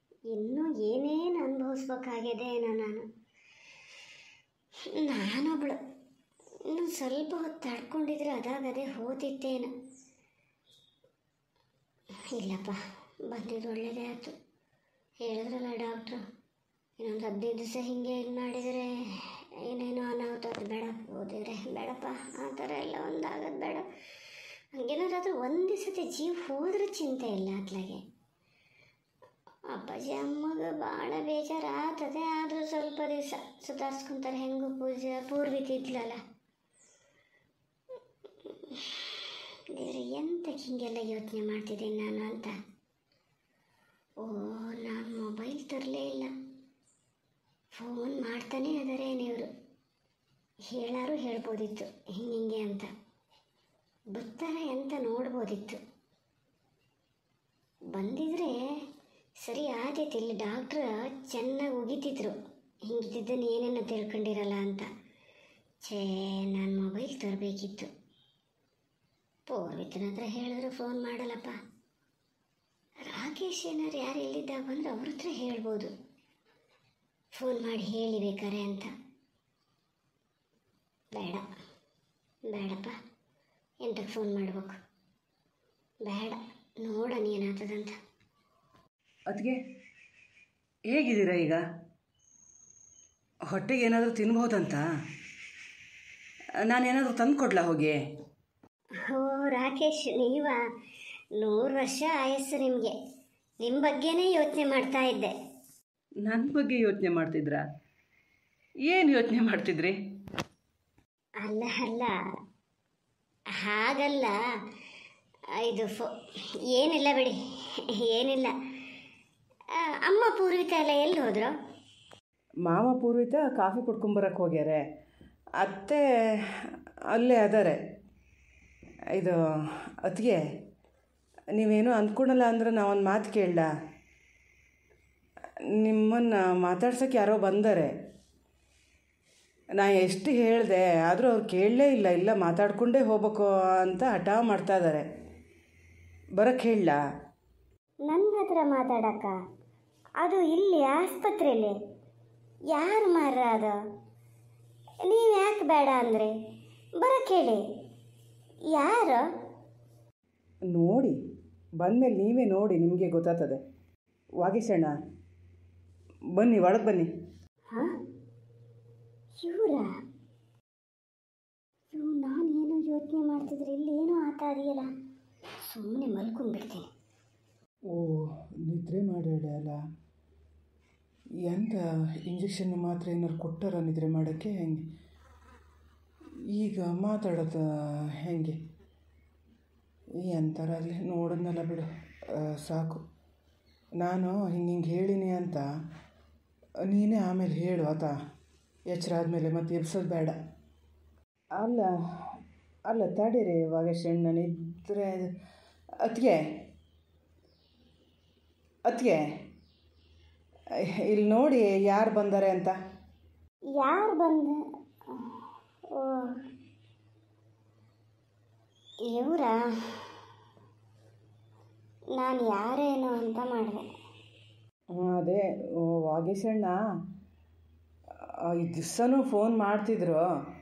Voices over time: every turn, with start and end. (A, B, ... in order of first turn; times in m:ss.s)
0:00.3-0:03.0 A
0:04.8-0:05.8 A
0:06.7-0:09.7 A
0:12.3-0:14.3 A
0:15.2-0:16.2 A
0:17.0-0:23.8 A
0:24.8-0:28.0 A
0:29.7-0:36.2 A
0:38.4-0:42.5 A
0:44.2-0:46.3 A
0:47.8-0:49.5 A
0:50.7-0:52.9 A
0:54.1-0:55.8 A
0:57.9-0:58.6 A
0:59.4-1:04.9 A
1:05.8-1:07.9 A
1:09.5-1:11.6 A
1:13.0-1:15.9 A
1:17.3-1:18.9 A
1:21.1-1:21.4 A
1:22.5-1:22.9 A
1:23.8-1:24.7 A
1:26.0-1:28.0 A
1:29.3-1:29.6 B
1:30.9-1:31.6 B
1:33.5-1:34.8 B
1:36.6-1:38.0 B
1:39.0-1:40.6 A
1:41.4-1:42.9 A
1:43.6-1:45.3 A
1:46.2-1:47.6 B
1:48.8-1:50.0 B
1:51.4-1:52.1 A
1:53.5-1:54.3 A
1:55.5-1:56.1 A
1:56.7-1:58.5 A
1:59.7-2:01.5 A
2:02.6-2:04.8 B
2:05.6-2:07.8 B
2:09.1-2:10.4 B
2:11.5-2:13.7 B
2:15.7-2:17.9 B
2:19.8-2:25.1 B
2:26.4-2:27.0 B
2:28.0-2:29.4 A
2:30.2-2:31.8 A
2:32.7-2:33.8 A
2:35.0-2:36.3 A
2:37.0-2:37.6 A
2:38.7-2:39.2 A
2:40.7-2:41.2 B
2:41.8-2:43.6 B
2:44.4-2:44.9 B
2:46.4-2:47.1 B
2:49.4-2:49.9 A
2:51.9-2:54.9 A
2:55.7-2:56.8 A
2:57.9-2:59.8 B
3:01.4-3:04.8 B
3:06.5-3:08.6 B
3:10.2-3:13.0 B
3:14.0-3:15.6 B
3:16.8-3:18.1 B
3:18.9-3:20.4 B
3:21.6-3:25.3 B
3:26.0-3:26.6 B
3:28.8-3:29.2 B
3:30.8-3:32.8 B
3:33.7-3:35.4 A
3:35.9-3:36.4 A
3:39.0-3:40.2 A
3:42.1-3:43.8 A
3:44.9-3:46.8 B
3:48.2-3:50.2 B